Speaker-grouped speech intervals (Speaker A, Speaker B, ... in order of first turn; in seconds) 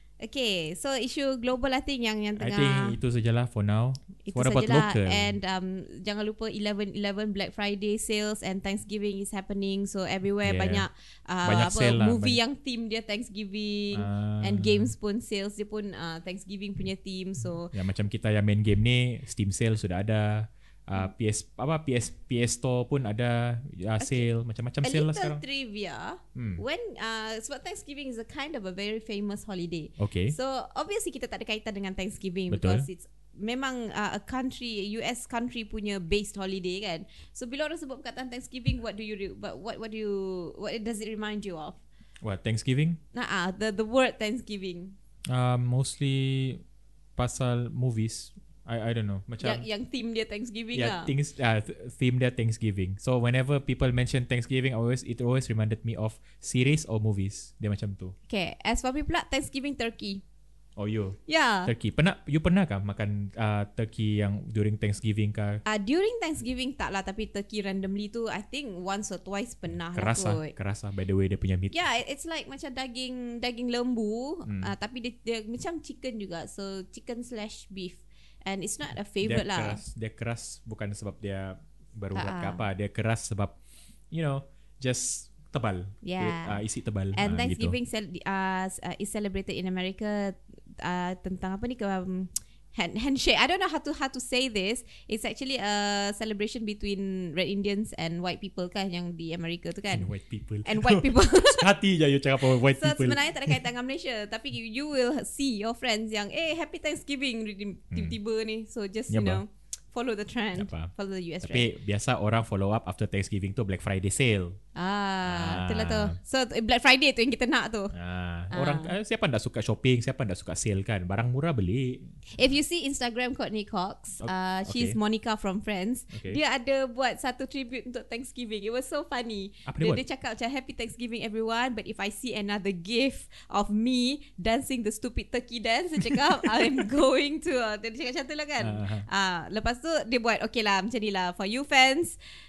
Speaker A: 0.2-3.0, 4.2-17.7, 24.0-24.3, 24.8-41.8, 43.1-45.0, 49.4-51.1, 58.3-60.2, 61.3-61.7, 65.7-70.5, 71.7-79.8, 82.2-82.6, 86.0-86.6, 87.2-100.1, 100.7-101.7, 102.4-111.7, 114.8-117.9, 118.5-118.9, 122.3-142.2
Speaker B: 2.4-5.3, 10.4-10.9, 11.4-12.4, 13.9-14.9, 17.4-25.4, 26.4-26.6, 30.0-30.4, 32.5-32.9, 42.2-43.0, 45.3-46.6, 47.2-49.6, 50.7-58.1, 60.8-65.6, 69.9-71.8, 74.5-74.7, 79.2-83.6, 84.1-87.8, 99.9-103.6, 107.9-108.2, 109.1-109.4, 110.6-110.9, 111.4-114.6, 115.2-116.2, 117.9-122.6, 124.2-125.0, 126.1-126.4, 129.7-130.0, 136.1-136.5, 138.6-139.1